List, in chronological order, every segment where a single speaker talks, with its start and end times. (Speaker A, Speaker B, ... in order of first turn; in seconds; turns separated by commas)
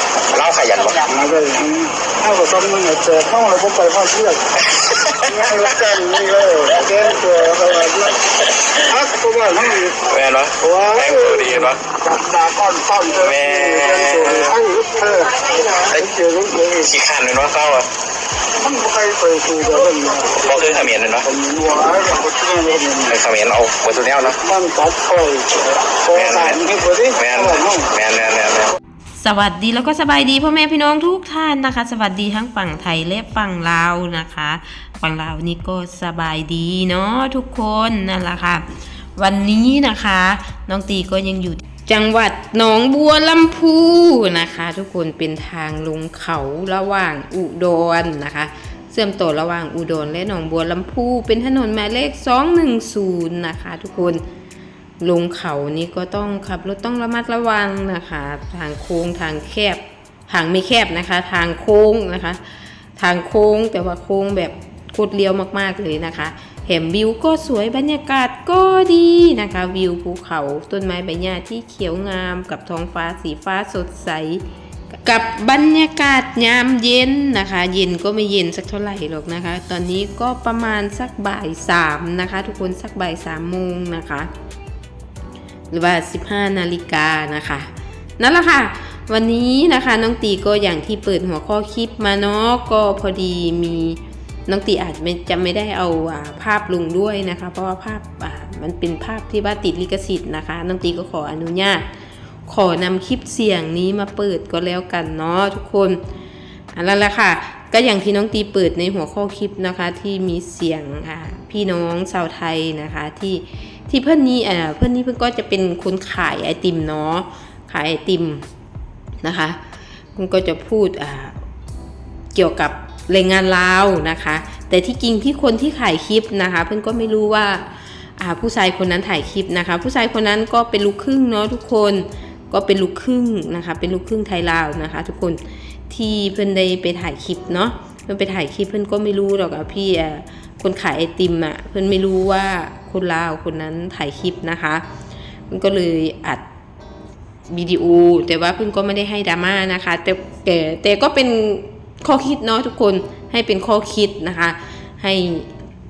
Speaker A: 0.3-1.1, Speaker B: 1.1-4.5, Speaker A: 4.9-5.4, Speaker B: 5.2-8.2, Speaker B: 8.8-10.0, Speaker A: 10.0-11.8, Speaker B: 10.6-16.9, Speaker A: 13.2-14.6, Speaker A: 16.9-17.9, Speaker B: 18.6-23.2, Speaker A: 20.3-21.3, Speaker A: 23.1-24.4, Speaker B: 24.2-27.9, Speaker A: 26.1-26.6, Speaker A: 27.1-28.7, Speaker C: 29.2-38.6, Speaker C: 39.2-54.2, Speaker C: 55.0-62.4, Speaker C: 63.0-74.4, Speaker C: 75.0-84.3, Speaker C: 85.7-101.8, Speaker C: 102.5-106.0, Speaker C: 106.7-118.5, Speaker C: 119.2-119.6, Speaker C: 120.2-121.4, Speaker C: 122.3-144.8, Speaker C: 145.5-146.4, Speaker C: 147.5-155.5